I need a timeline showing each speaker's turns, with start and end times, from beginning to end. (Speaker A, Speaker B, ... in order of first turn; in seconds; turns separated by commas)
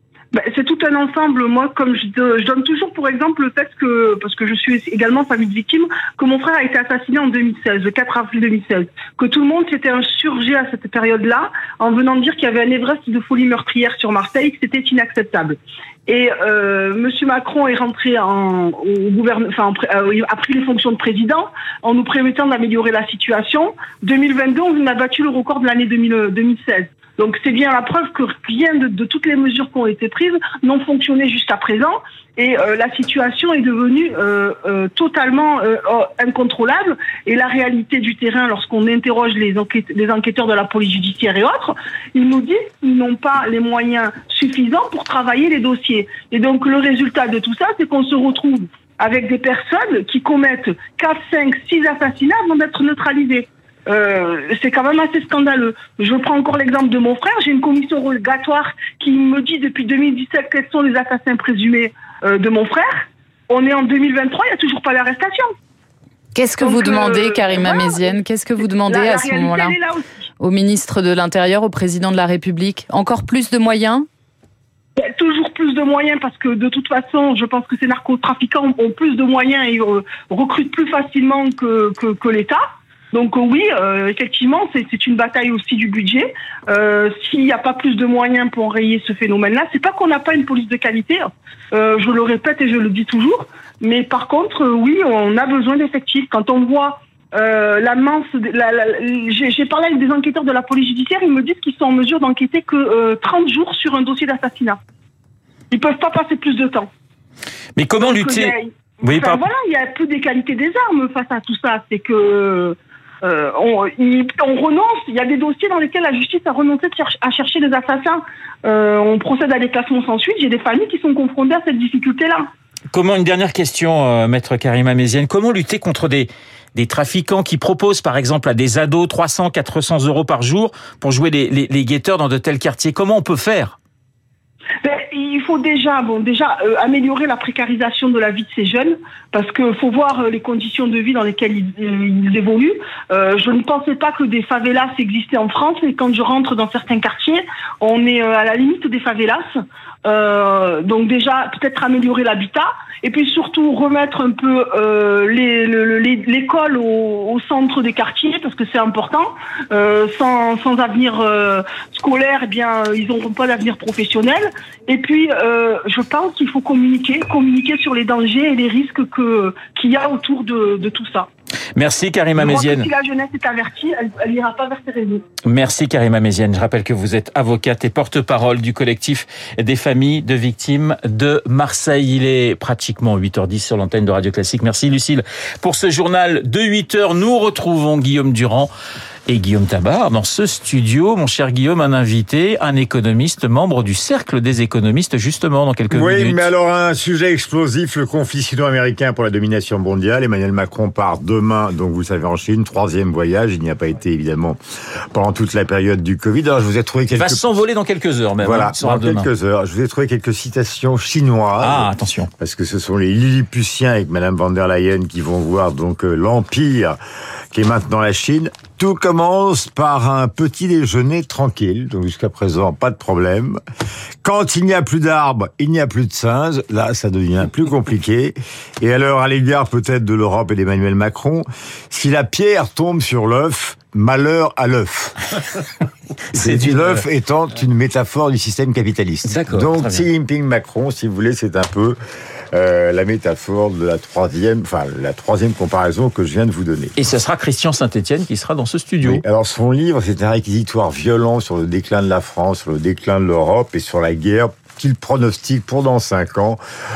Speaker A: 0.3-65.5, Speaker B: 66.3-69.8, Speaker A: 66.6-68.2, Speaker A: 68.8-70.0, Speaker B: 70.4-74.1, Speaker A: 75.0-104.8, Speaker A: 105.7-106.9, Speaker C: 107.8-109.4, Speaker A: 108.0-122.5, Speaker C: 122.9-133.8, Speaker A: 134.8-171.3, Speaker C: 171.8-172.9, Speaker A: 172.3-175.2, Speaker C: 175.4-188.7, Speaker C: 189.3-196.5, Speaker D: 195.9-204.6, Speaker D: 205.1-207.5, Speaker C: 207.2-209.3, Speaker D: 208.4-217.0, Speaker C: 211.6-212.3, Speaker D: 217.5-223.6, Speaker D: 224.2-235.2, Speaker D: 236.3-242.0, Speaker C: 236.3-237.0, Speaker C: 239.2-240.1, Speaker D: 242.5-246.9, Speaker C: 247.0-249.2, Speaker D: 249.0-256.6